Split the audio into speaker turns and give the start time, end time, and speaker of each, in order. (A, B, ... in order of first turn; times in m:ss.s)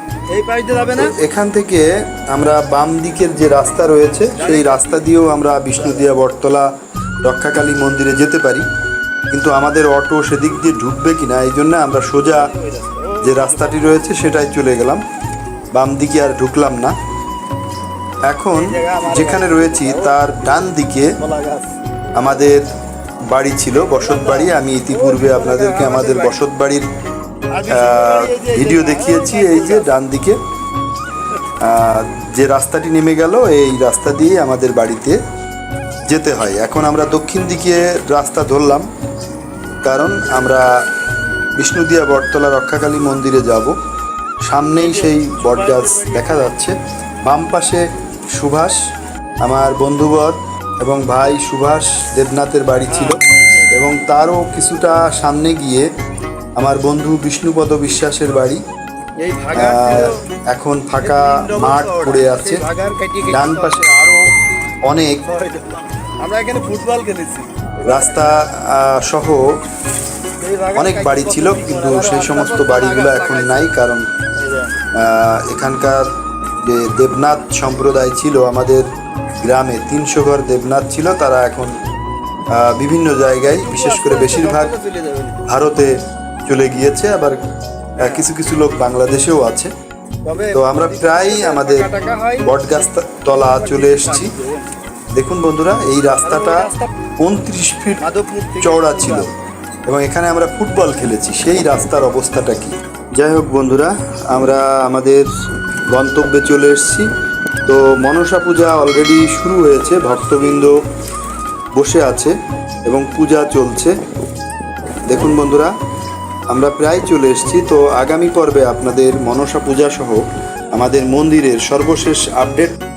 0:00.3-0:01.1 A
0:01.0-0:06.7 B
0:04.3-0:05.2 A
0:05.8-0:06.1 A
0:07.2-0:08.6 B
0:09.3-0:12.5 B
0:12.2-0:14.0 A
0:13.2-0:15.0 B
0:15.7-0:17.0 B
0:18.3-0:21.2 B
0:18.5-0:20.2 A
0:21.2-0:21.8 A
0:22.1-0:22.7 B
0:23.3-0:26.9 B
0:23.9-0:26.4 A
0:27.5-0:29.9 A
0:27.7-0:30.4 B
0:31.6-0:35.2 B
0:36.1-0:38.9 B
0:39.8-0:40.8 B
0:41.6-0:43.7 B
0:44.4-0:48.8 B
0:44.7-0:46.5 A
0:49.4-0:55.9 B
0:52.9-0:53.7 A
0:56.6-0:58.6 B
0:59.2-1:00.2 A
0:59.5-1:02.6 B
1:01.0-1:04.1 A
1:03.3-1:04.3 B
1:04.8-1:05.2 B
1:05.2-1:08.3 A
1:07.8-1:09.6 B
1:10.4-1:13.7 A
1:10.8-1:14.1 B
1:14.4-1:14.8 A
1:14.9-1:18.9 B
1:19.4-1:21.7 B
1:22.5-1:24.7 B
1:23.4-1:25.4 A
1:25.4-1:27.4 B
1:28.0-1:29.7 B
1:28.0-1:28.2 A
1:30.2-1:32.5 A
1:30.5-1:31.9 B
1:32.4-1:34.3 B
1:33.3-1:34.7 A
1:35.1-1:38.0 B
1:36.2-1:36.9 A
1:38.0-1:39.3 A
1:38.6-1:39.3 B
1:39.9-1:45.3 B
1:45.9-1:47.1 B
1:47.6-1:50.8 B
1:51.8-1:52.4 B
1:52.9-1:54.0 B
1:55.1-1:55.7 B
1:56.5-2:02.8 B